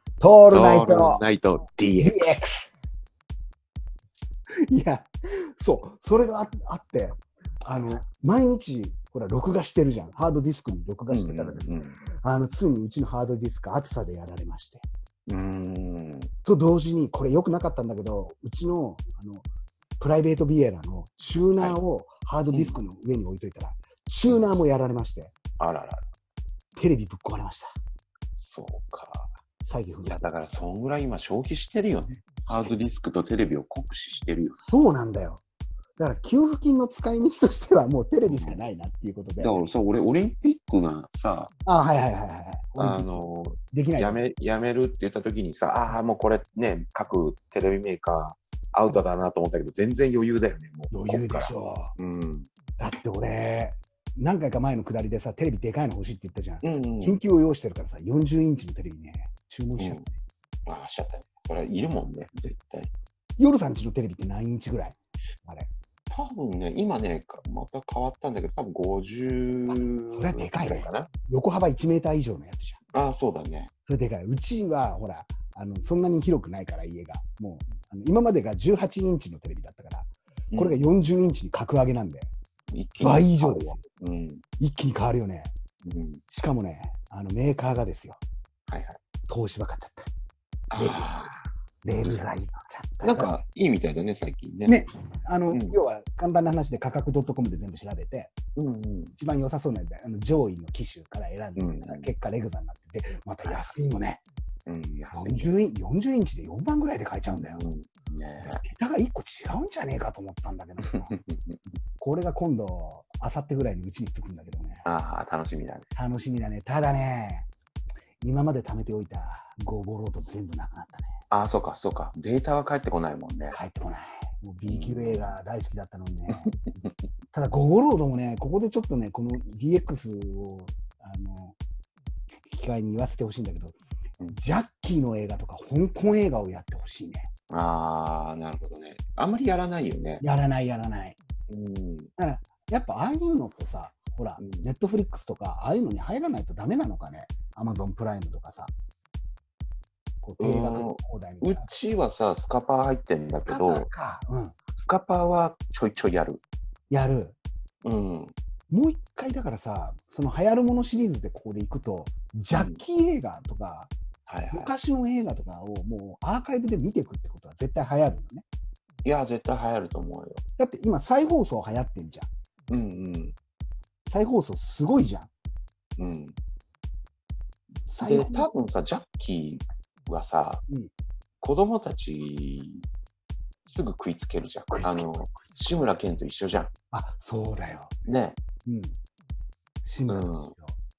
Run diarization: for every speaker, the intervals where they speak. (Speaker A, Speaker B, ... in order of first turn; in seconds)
Speaker A: 0.2-1.2, 2.0-2.7, 4.7-14.9, 16.4-19.5, 20.0-25.4, 26.8-27.7, 29.6-30.2, 32.5-32.8, 34.6-35.4, 36.0-39.6, 41.7-43.1, 43.7-44.2, 50.9-51.9, 52.8-60.1, 63.4-65.7, 69.7-72.8, 73.9-82.3, 83.0-83.8, 84.6-85.5, 86.3-88.2, 89.3-90.1, 90.8-91.1, 91.8-93.3, 94.7-98.3, 99.2-104.2, 105.1-107.6, 108.4-111.1, 112.0-114.9, 116.0-117.5, 118.2-121.1, 123.5-126.6, 127.3-131.6, 132.5-133.8, 134.3-137.3, 140.2-141.2, 142.2-148.7, 150.2-151.7, 153.4-154.6, 156.9-157.4, 158.7-163.9, 164.5-168.4, 170.6-172.3, 174.1-175.3, 177.9-178.5, 184.7-185.7, 186.9-187.9, 188.7-189.0, 189.8-190.8
Speaker B: 0.5-2.4, 7.7-8.0, 11.1-12.0, 15.3-16.3, 22.5-22.8, 25.6-26.1, 28.4-29.3, 30.0-34.6, 38.3-38.6, 39.4-41.5, 42.8-52.5, 56.6-57.2, 60.7-62.9, 66.1-71.1, 72.9-73.7, 80.5-80.8, 82.7-84.4, 85.9-86.2, 88.7-89.0, 90.7-91.5, 92.0-92.3, 93.0-94.8, 95.5-95.8, 98.6-99.2, 101.6-102.1, 103.5-103.7, 104.7-105.6, 107.3-108.6, 110.8-111.6, 114.8-115.9, 121.3-123.6, 124.7-125.4, 126.3-126.9, 137.5-140.2, 141.5-142.1, 144.4-144.7, 150.4-153.9, 154.8-156.4, 157.8-158.3, 162.5-162.8, 164.3-164.7, 169.1-170.4, 172.7-173.3, 176.0-176.4, 178.0-180.6, 181.4-182.9, 183.7-186.7, 188.1-188.4, 190.1-190.5